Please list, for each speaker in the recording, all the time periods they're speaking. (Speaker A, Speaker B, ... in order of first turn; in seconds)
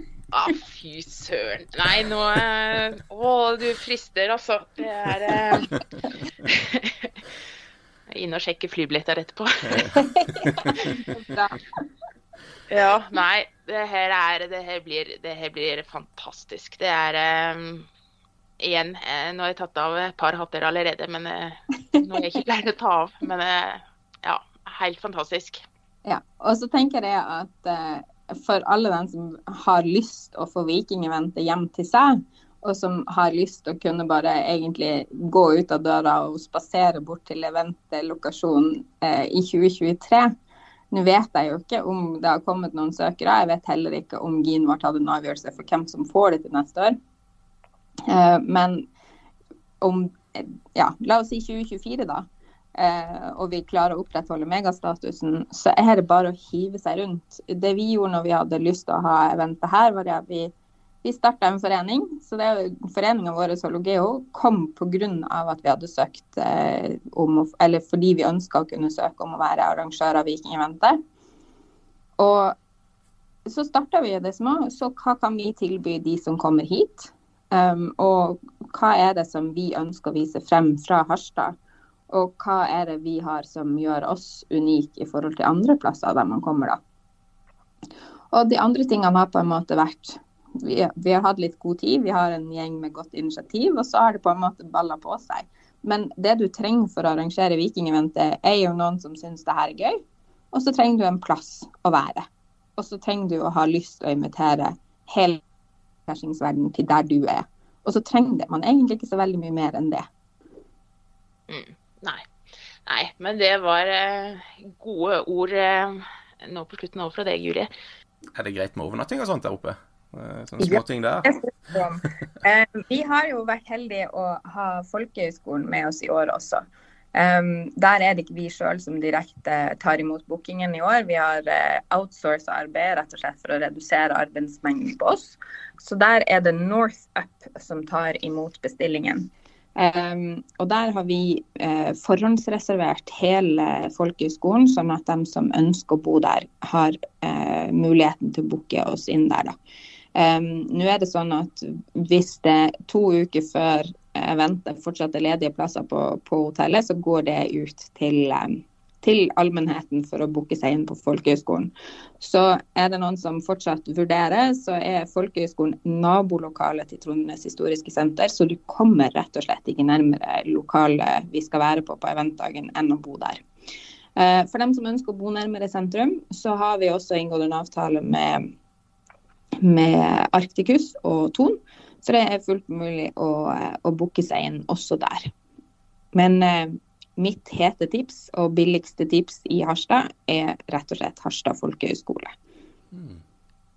Speaker A: 0.3-5.7, 6.4-7.2, 8.1-9.9, 12.7-17.9, 18.6-25.6, 111.5-112.2, 112.9-117.7
Speaker B: 9.7-10.8, 118.3-121.8, 192.9-193.2
Speaker C: 9.9-11.8, 26.0-40.3, 40.9-47.0, 48.1-48.9, 49.8-60.5, 61.0-71.0, 72.2-72.6, 73.5-81.5, 82.1-86.8, 88.3-100.0, 100.5-105.4, 106.1-110.1, 120.6-126.6, 127.1-149.6, 150.1-173.4, 174.2-178.5, 179.6-185.3, 186.1-192.3